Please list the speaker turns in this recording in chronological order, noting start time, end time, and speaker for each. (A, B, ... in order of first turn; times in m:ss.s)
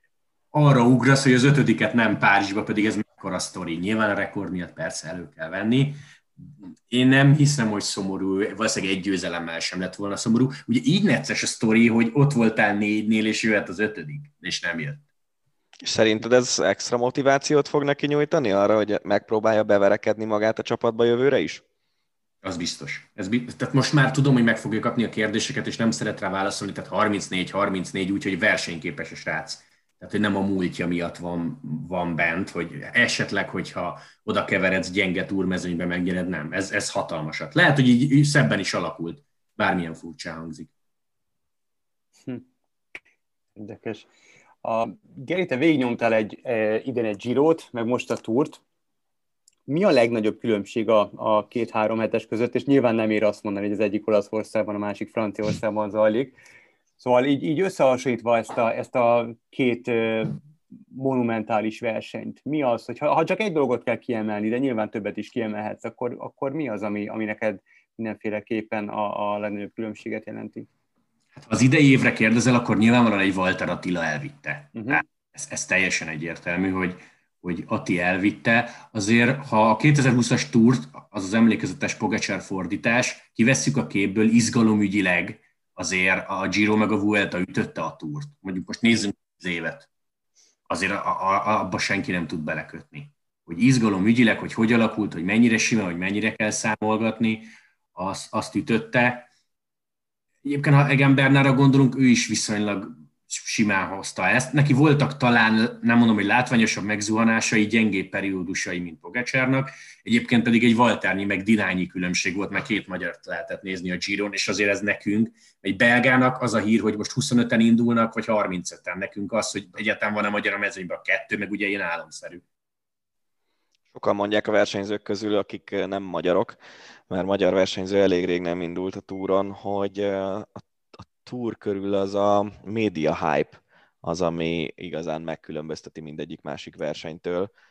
0:00.5-0:06.0 A
0:06.9-0:15.0 A
0:15.8-0:21.6 B
0:22.4-0:40.7 A
0:43.6-0:44.1 C
0:44.6-0:48.6 C
0:49.7-0:56.4 C
0:57.0-1:00.4 C
1:00.9-1:10.7 C
1:11.3-1:29.9 A
1:14.8-1:15.0 C
1:30.7-1:39.3 A
1:40.4-2:02.4 A
2:03.9-2:06.6 B
2:07.1-2:17.5 B